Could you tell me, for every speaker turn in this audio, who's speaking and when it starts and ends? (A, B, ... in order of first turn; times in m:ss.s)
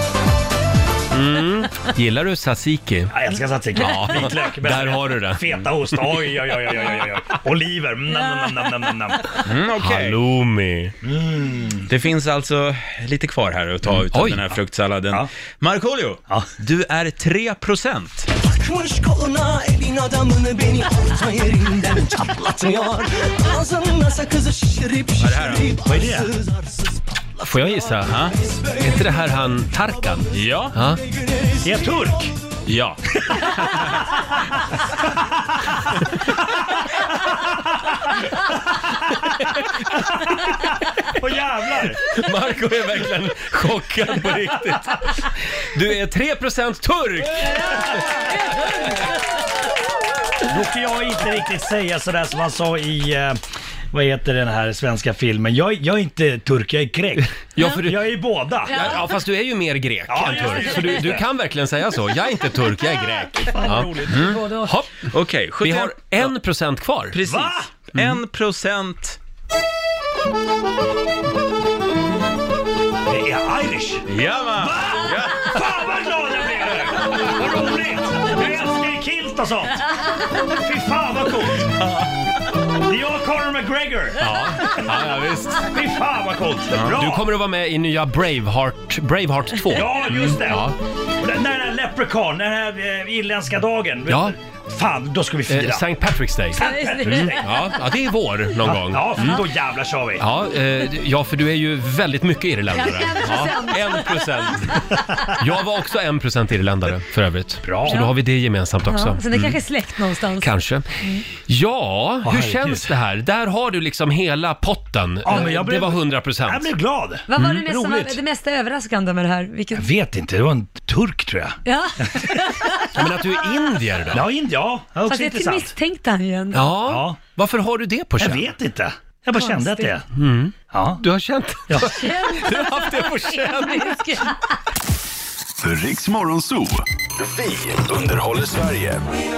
0:01.1-0:03.1 A
0:03.1-0:09.3 B
0:03.7-0:06.2 A
0:08.2-0:08.5 C
0:09.4-0:10.2 D
0:09.8-0:10.9 A
0:11.0-0:11.9 B
0:11.9-0:18.3 D
0:13.9-0:14.5 A
0:18.3-0:32.3 E
0:25.2-0:25.8 D
0:25.9-0:26.3 B
0:27.4-0:28.2 A
0:28.0-0:28.4 D
0:28.8-0:31.0 A
0:30.3-0:30.8 D
0:31.6-0:32.3 B
0:32.7-0:33.9 D
0:36.9-0:37.3 B
0:40.1-0:40.6 B
0:41.2-0:42.1 B
0:42.1-0:48.0 A
0:47.6-0:48.3 C
0:50.5-0:53.4 B
0:53.9-0:57.3 B
0:57.6-0:58.1 A
0:57.8-0:58.9 B
0:58.6-0:59.2 C
0:58.7-1:05.1 A
1:00.1-1:01.2 B
1:00.5-1:01.0 C
1:03.6-1:04.1 B
1:03.6-1:04.8 C
1:04.1-1:04.4 D
1:05.1-1:06.3 D
1:05.6-1:07.2 A
1:07.2-1:07.7 B
1:07.9-1:09.2 D
1:08.0-1:08.2 A
1:13.1-1:14.0 B
1:14.1-1:15.6 D
1:14.6-1:19.8 B
1:20.5-1:21.7 B
1:22.8-1:24.2 B
1:24.2-1:25.7 A
1:25.6-1:27.2 B
1:26.8-1:30.8 A
1:29.7-1:35.9 B
1:34.1-1:34.4 A
1:35.5-1:39.4 A
1:36.6-1:37.5 B
1:36.6-1:37.8 C
1:38.6-1:40.3 B
1:39.2-1:39.4 C
1:40.2-1:44.8 A
1:42.7-1:44.9 C
1:45.4-1:49.6 A
1:47.6-1:48.0 B
1:47.9-1:48.1 C
1:48.9-1:50.5 C
1:50.4-1:56.7 A
1:52.2-1:52.9 B
1:55.2-1:58.2 B
1:57.3-1:59.9 C
1:57.4-1:57.8 A
1:59.7-2:02.4 B
2:01.6-2:03.8 C
2:02.9-2:04.3 A
2:04.1-2:05.7 B
2:05.0-2:06.8 C
2:06.5-2:08.5 A
2:06.9-2:07.2 B
2:08.2-2:10.1 B
2:09.3-2:10.0 C
2:10.1-2:14.0 A
2:10.7-2:11.0 B
2:11.8-2:14.6 C
2:15.6-2:19.1 F